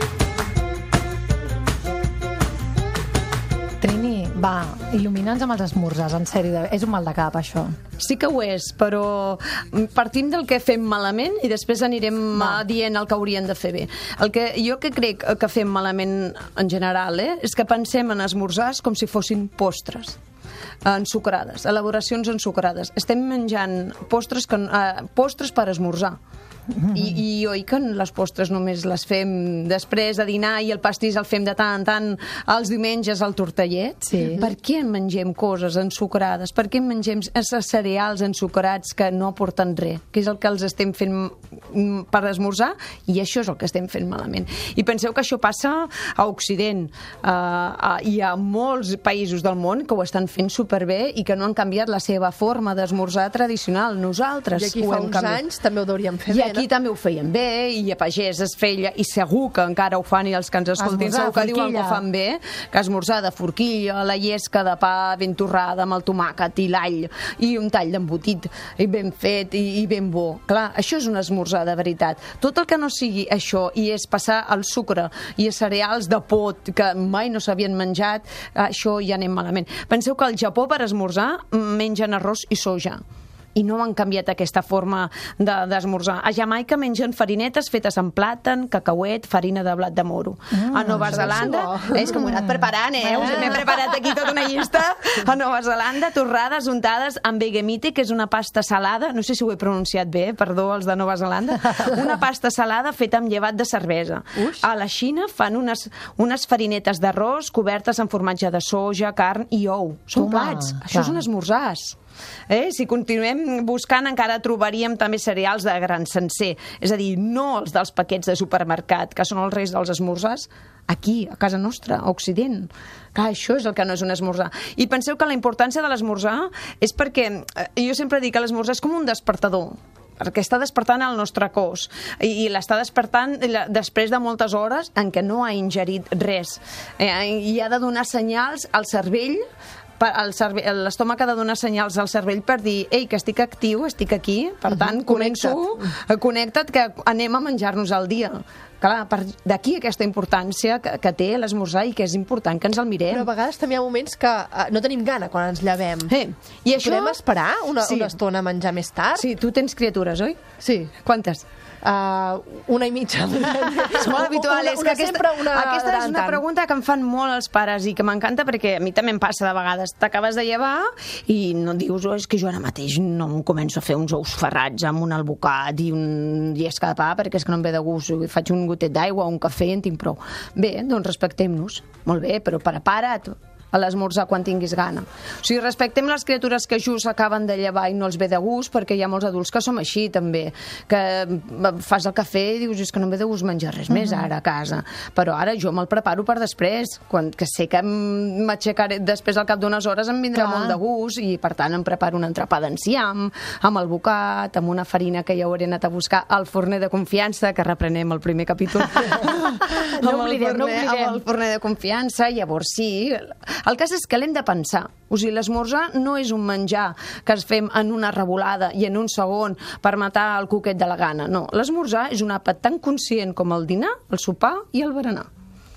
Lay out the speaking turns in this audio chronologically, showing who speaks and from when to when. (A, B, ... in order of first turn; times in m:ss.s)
0:03.8-0:07.8 A
0:08.0-0:20.2 B
0:12.3-0:12.6 A
0:20.8-0:26.2 B
0:26.7-0:27.2 A
0:26.9-0:55.4 B
0:34.1-0:34.4 A
0:54.5-0:56.6 C
0:56.3-1:23.0 B
1:00.8-1:02.0 A
1:23.6-1:52.0 B
1:30.5-1:33.6 A
1:31.2-1:31.9 C
1:50.1-1:51.2 A
1:52.5-2:19.4 B
2:20.0-2:33.3 B
2:24.7-2:25.9 C
2:33.1-2:36.1 C
2:36.1-2:37.2 B
2:36.8-2:39.2 C
2:37.8-2:38.1 B
2:39.1-2:40.4 B
2:40.6-2:41.0 C
2:41.0-2:41.4 B
2:41.8-2:46.4 C
2:43.8-3:45.3 B
3:13.9-3:14.2 A
3:20.3-3:20.8 A
3:29.0-3:31.2 A